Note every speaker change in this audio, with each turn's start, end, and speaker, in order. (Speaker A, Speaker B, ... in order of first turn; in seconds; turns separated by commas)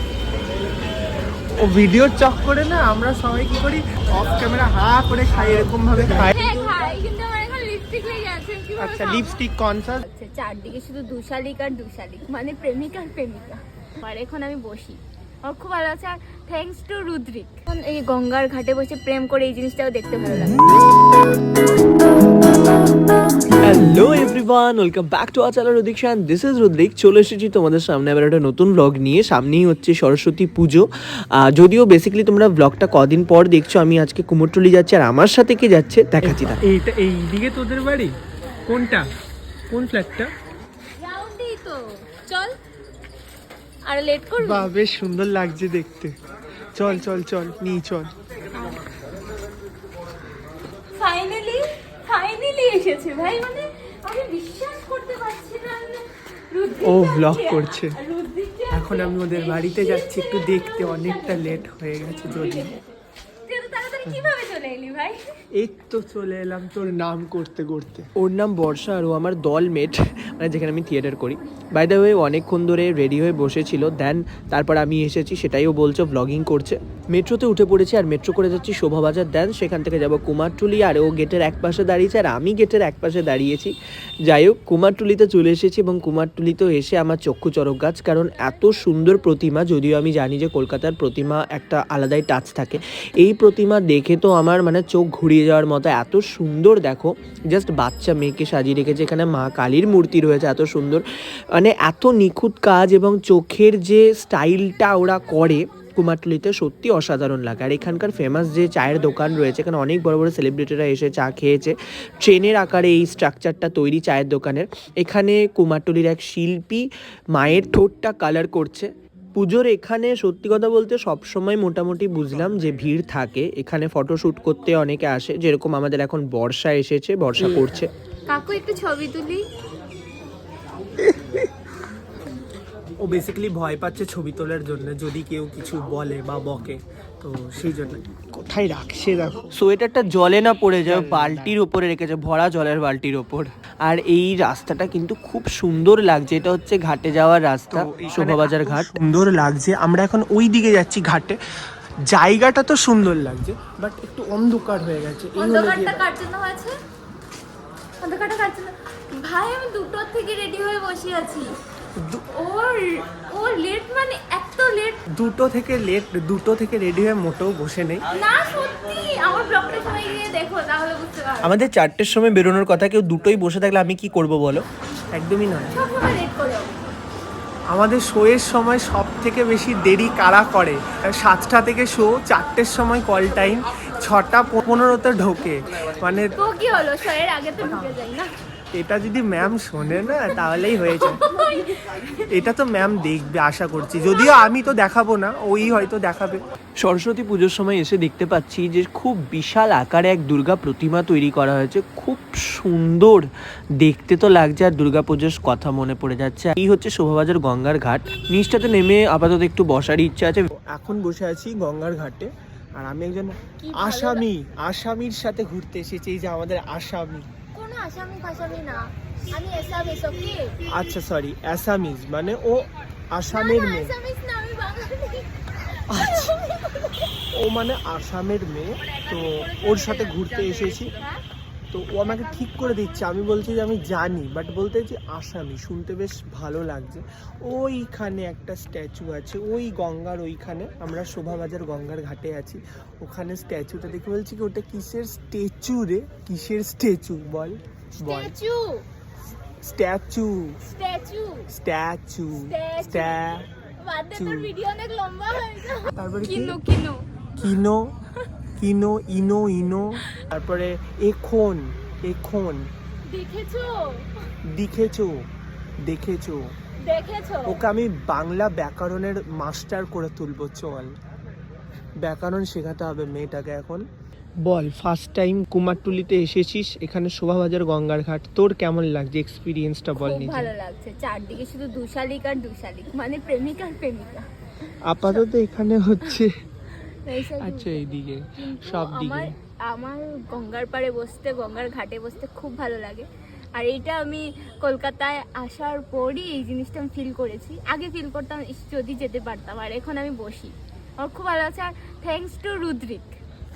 Speaker A: 1.6-6.4, Speaker B: 6.3-9.4, Speaker A: 8.8-10.0, Speaker B: 10.0-20.6, Speaker C: 23.6-30.9, Speaker C: 31.4-36.6, Speaker A: 36.2-38.1, Speaker A: 38.7-39.0, Speaker A: 39.7-40.3, Speaker B: 41.0-42.6, Speaker B: 43.9-44.7, Speaker A: 44.4-46.1, Speaker A: 46.7-48.1, Speaker B: 48.5-48.8, Speaker B: 50.9-61.6, Speaker A: 56.8-58.0, Speaker A: 58.7-62.8, Speaker B: 62.3-62.8, Speaker B: 63.5-65.2, Speaker A: 65.6-68.1, Speaker C: 68.2-83.7, Speaker C: 84.3-116.8, Speaker C: 117.3-127.9, Speaker B: 128.3-129.5, Speaker A: 133.0-139.5, Speaker C: 139.5-148.9, Speaker A: 140.8-141.6, Speaker A: 147.7-151.4, Speaker A: 152.1-156.0, Speaker B: 155.4-156.8, Speaker B: 158.0-161.6, Speaker B: 162.3-165.0, Speaker A: 165.1-168.0, Speaker B: 168.1-171.6, Speaker C: 171.4-174.6, Speaker A: 175.1-175.8, Speaker B: 175.7-176.7, Speaker A: 177.7-186.4, Speaker B: 186.3-188.3, Speaker A: 188.7-191.2, Speaker B: 190.9-192.2, Speaker A: 192.3-196.4, Speaker C: 196.8-210.5, Speaker A: 210.5-217.3, Speaker B: 213.6-214.2, Speaker B: 217.5-220.5, Speaker A: 220.7-223.9, Speaker B: 223.3-225.3, Speaker A: 225.9-226.3, Speaker B: 225.9-227.0, Speaker A: 227.3-230.9, Speaker B: 229.6-231.2, Speaker A: 231.7-248.3, Speaker B: 248.0-248.8, Speaker A: 249.6-250.6, Speaker B: 250.6-251.5, Speaker A: 251.5-253.5, Speaker B: 252.5-253.2, Speaker B: 253.8-257.5, Speaker A: 254.1-254.5, Speaker A: 255.8-256.6, Speaker A: 257.4-257.9, Speaker A: 258.6-262.7, Speaker B: 263.1-264.1, Speaker A: 264.5-265.1, Speaker A: 265.8-266.4, Speaker B: 266.8-267.6, Speaker A: 267.4-270.9, Speaker A: 272.0-273.8, Speaker A: 274.4-280.5, Speaker B: 279.9-284.3, Speaker A: 284.9-286.3, Speaker B: 287.1-287.9, Speaker A: 287.4-289.3, Speaker B: 288.4-303.2